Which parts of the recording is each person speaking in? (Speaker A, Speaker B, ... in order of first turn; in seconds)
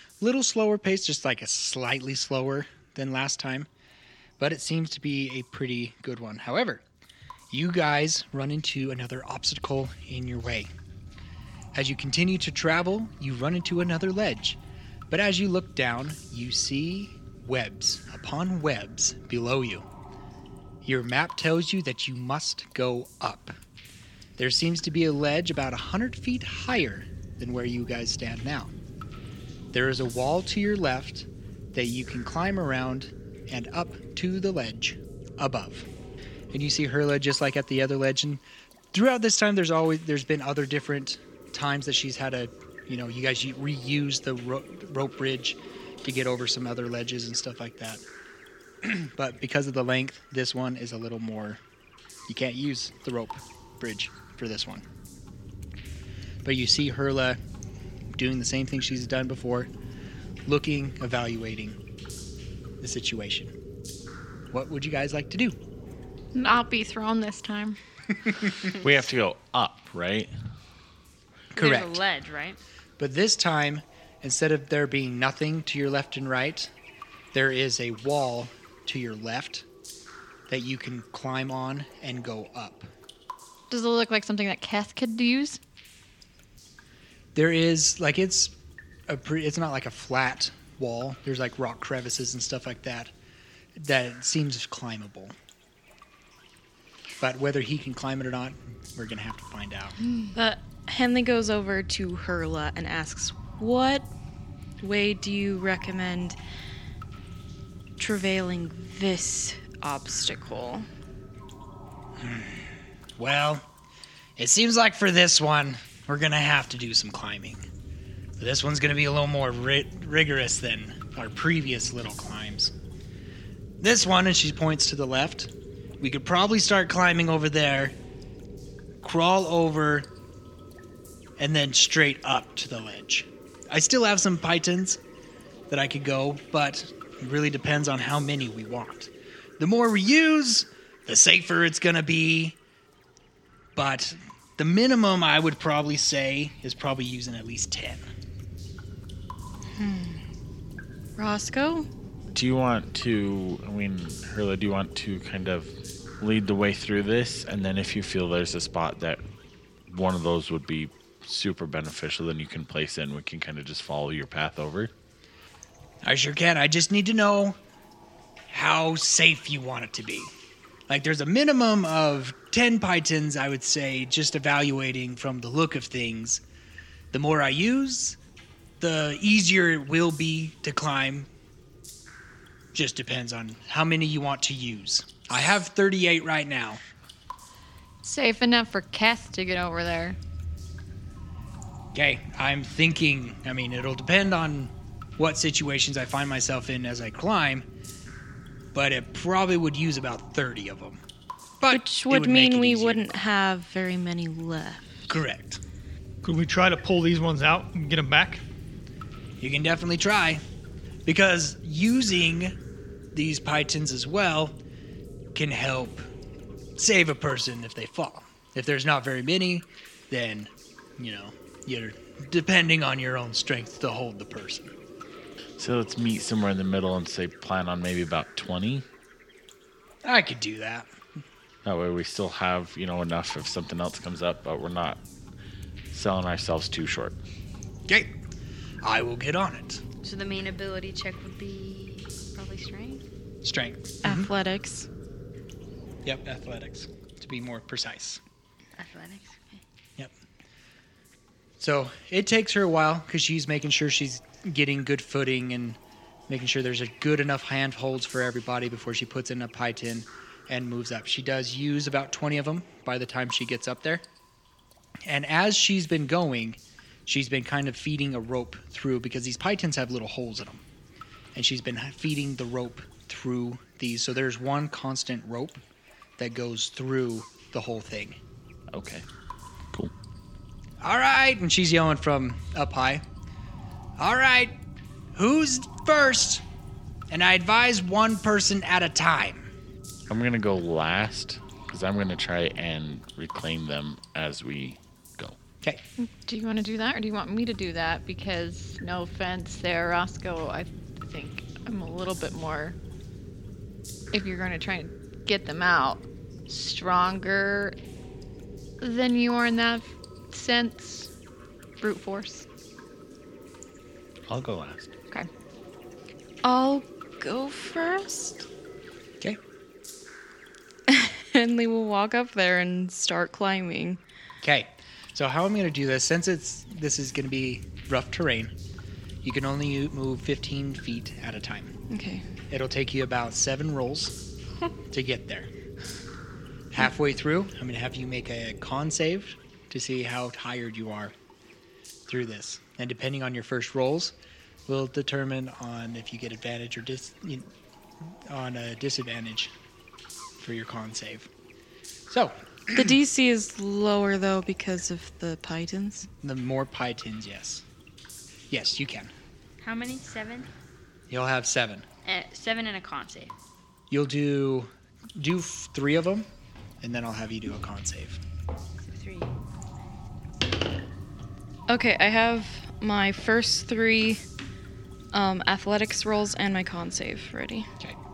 Speaker A: 0.2-3.7, 4.4-6.8, 7.5-10.7, 11.7-14.6, 15.1-19.8, 20.8-23.5, 24.4-28.7, 29.7-35.9, 36.5-48.0, 48.8-51.6, 52.3-54.8, 56.4-57.4, 58.1-59.7, 60.5-61.8, 62.8-63.5, 64.5-65.6, 71.5-72.0, 73.0-76.7, 77.3-79.7, 80.5-82.9, 87.3-88.5, 89.1-93.1, 93.8-95.3, 97.2-100.0, 112.2-113.6, 114.4-117.6, 118.4-122.7, 123.8-127.9, 129.0-130.1, 131.4-135.0, 135.7-142.6, 143.7-148.0, 166.0-167.6, 168.5-170.3, 170.9-176.4, 177.1-178.2, 178.8-181.3, 182.7-186.8, 191.9-197.6, 198.7-201.0, 201.6-203.2, 205.1-205.6, 209.4-210.4, 211.0-212.6, 213.1-214.6, 215.3-216.0, 216.8-224.7, 230.0-230.9, 238.8-239.8, 243.4-244.3, 246.0-248.2, 251.6-264.0, 265.1-270.6, 271.3-275.6, 276.2-278.2, 280.8-283.0, 284.0-284.6, 285.1-286.4, 287.1-289.5, 324.4-328.5, 329.2-331.7, 332.5-334.1, 334.9-335.5, 336.7-341.1, 342.1-344.1, 344.7-347.5, 348.0-349.5, 350.4-351.3, 352.1-352.9, 356.2-357.6, 358.5-359.1, 361.1-361.9, 363.9-366.3, 366.8-368.2
Speaker B: 66.3-67.8, 83.7-85.6, 188.0-190.2, 296.0-302.8, 304.1-307.8, 308.8-311.1, 311.8-312.4
Speaker C: 68.8-70.3, 152.3-159.2, 159.9-164.9, 225.6-228.8, 231.6-235.0, 235.9-237.2, 278.7-279.0, 290.1-295.4, 314.3-314.9
Speaker D: 71.5-72.6, 240.0-243.0, 248.8-249.6, 359.6-360.5, 362.0-363.3, 368.8-369.3
Speaker E: 100.3-104.1, 104.8-106.4, 108.0-110.9, 149.7-150.2, 151.2-151.9, 201.7-205.1, 244.0-244.9, 316.4-318.5, 320.9-324.0, 331.9-332.2, 352.7-356.1, 371.7-374.2, 375.1-377.7
Speaker F: 206.2-208.4